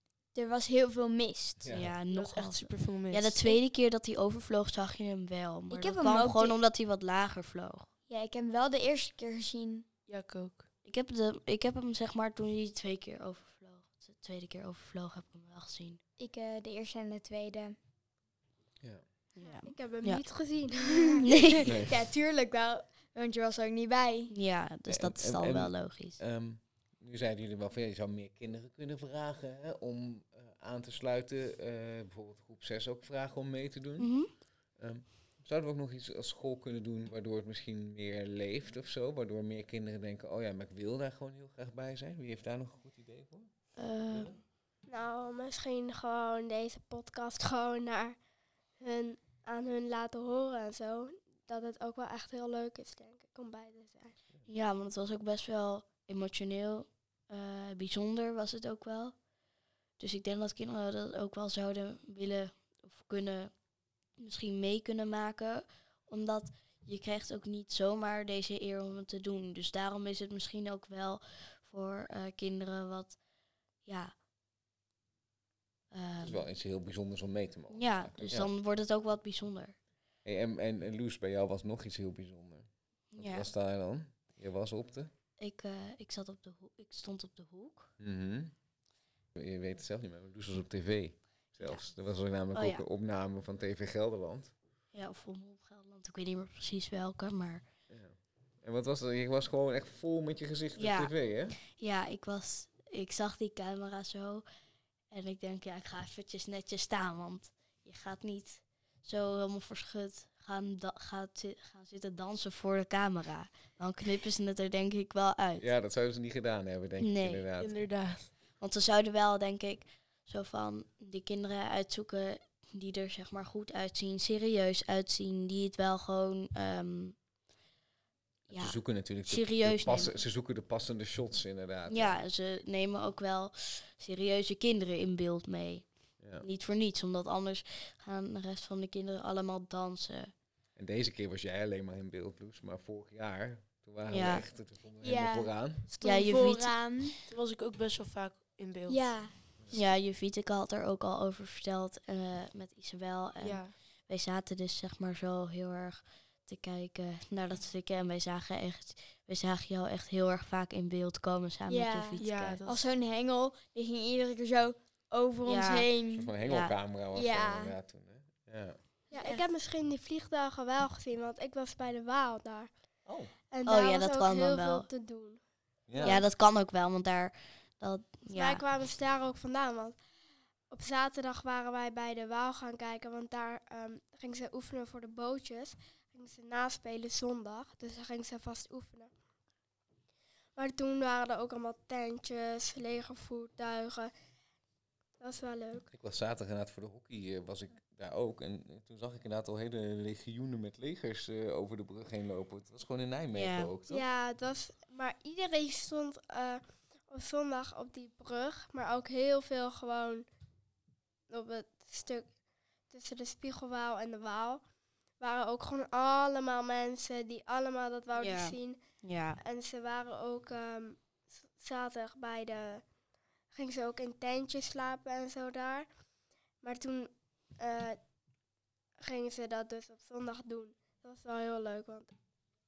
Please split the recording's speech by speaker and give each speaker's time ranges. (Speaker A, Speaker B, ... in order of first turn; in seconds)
Speaker A: 0.3-1.7, 5.7-6.5, 8.1-9.8, 16.2-17.8, 21.9-24.3, 145.0-147.2, 148.9-149.3, 161.7-166.3, 167.1-167.7
Speaker B: 1.6-1.9, 21.6-22.0, 24.9-34.1, 34.8-43.5, 44.1-44.4, 76.2-78.5, 80.2-85.1, 88.0-88.5, 89.3-94.5, 97.9-101.6, 115.6-117.7, 128.5-132.2, 136.2-136.4, 140.8-145.9, 166.1-168.8, 173.1-173.3, 175.9-176.2, 195.9-204.1
Speaker C: 1.7-7.9, 10.8-16.0, 19.3-20.2, 21.2-21.8, 24.3-26.2, 34.0-34.3, 43.8-44.3, 54.5-59.1, 60.0-63.5, 64.2-73.2, 73.8-74.1, 75.9-76.4, 77.7-79.8, 83.1-83.5, 85.4-87.9, 92.5-92.8, 94.9-97.6, 100.8-104.4, 105.1-115.7, 117.0-117.4, 118.6-127.2, 128.5-130.1, 131.9-135.8, 136.4-140.3, 144.1-144.4, 146.0-146.7, 149.7-162.6, 165.4-165.9, 166.4-166.7, 173.7-174.9, 176.0-178.6, 203.3-203.7, 218.1-219.4
Speaker D: 1.9-3.5, 10.1-10.7, 117.6-118.3, 147.2-149.2, 153.4-153.7, 162.2-163.0
Speaker E: 19.4-21.5, 44.9-48.1, 48.8-54.1, 169.1-172.7, 173.5-175.4, 175.9-176.2, 178.3-180.0, 180.7-189.1, 190.6-194.1, 195.2-195.9, 203.9-210.2, 211.3-212.2, 212.9-214.6, 215.2-218.8, 219.4-222.8, 223.5-225.9, 226.6-228.0, 229.0-232.1